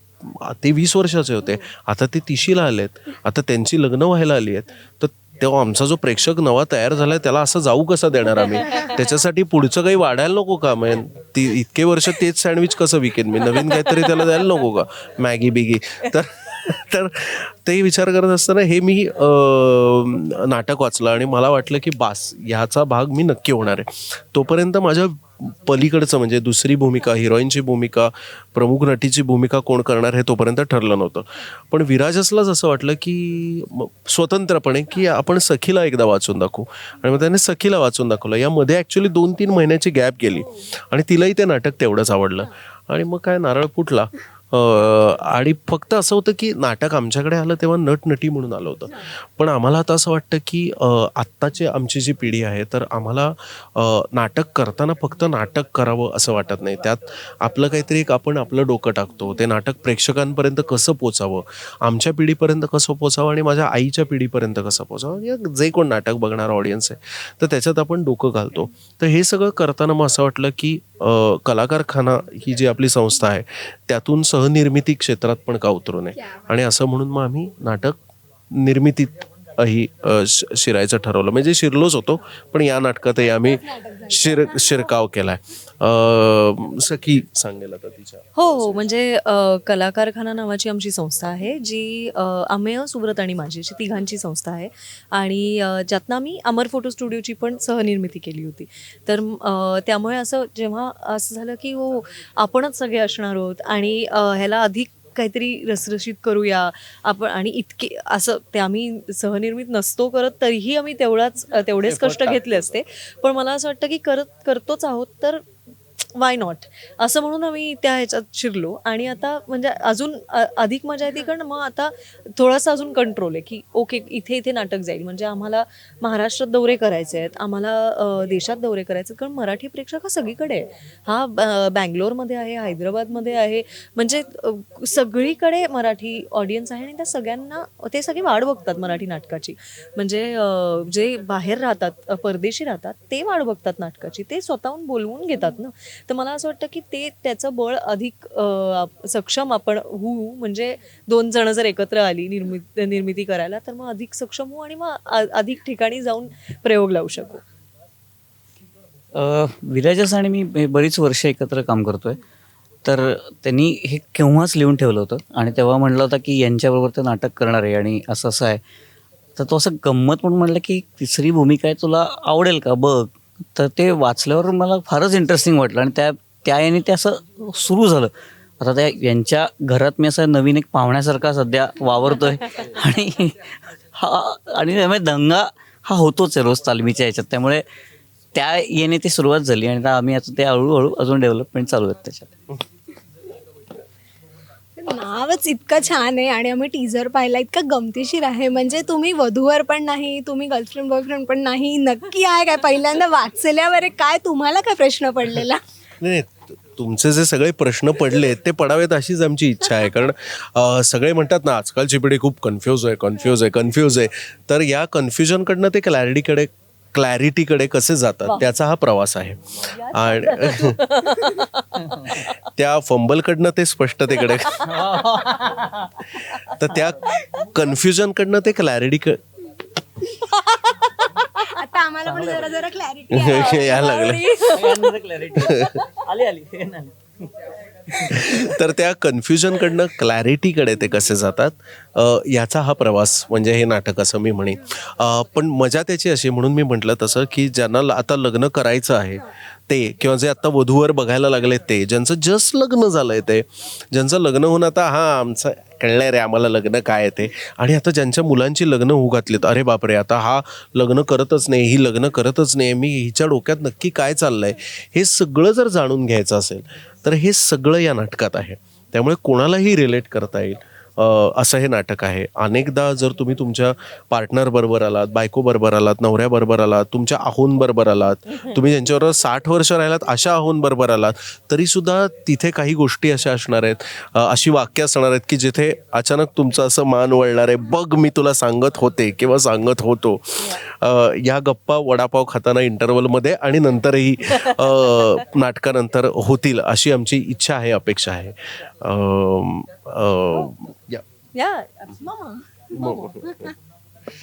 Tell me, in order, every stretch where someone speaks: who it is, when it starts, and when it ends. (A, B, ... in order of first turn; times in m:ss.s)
0:00.2-1:18.0 A
0:08.6-0:09.0 B
0:13.4-0:14.3 B
1:18.5-1:28.8 A
1:23.2-1:25.0 C
1:28.4-1:55.4 B
1:51.8-1:52.8 A
1:56.2-2:37.4 B
2:39.1-2:42.2 D
2:42.8-2:48.6 D
2:49.4-3:07.6 D
3:08.3-3:12.3 D
3:14.8-3:25.6 C
3:26.0-3:40.8 A
3:39.7-3:42.4 B
3:42.5-3:44.7 A
3:44.2-3:44.8 B
3:44.7-3:46.0 D
3:46.1-3:49.2 A
3:46.8-3:47.2 D
3:50.2-3:51.5 B
3:51.6-3:54.0 C
3:52.0-3:52.6 D
3:53.1-3:54.2 A
3:53.2-3:54.9 B
3:54.0-3:57.0 D
3:55.4-3:55.7 A
3:57.9-3:58.3 D
3:58.0-5:01.0 A
4:54.3-4:55.1 B
5:01.4-5:02.0 B
5:02.0-5:02.7 C
5:02.7-5:03.5 A
5:02.8-5:03.1 B
5:03.2-5:03.5 C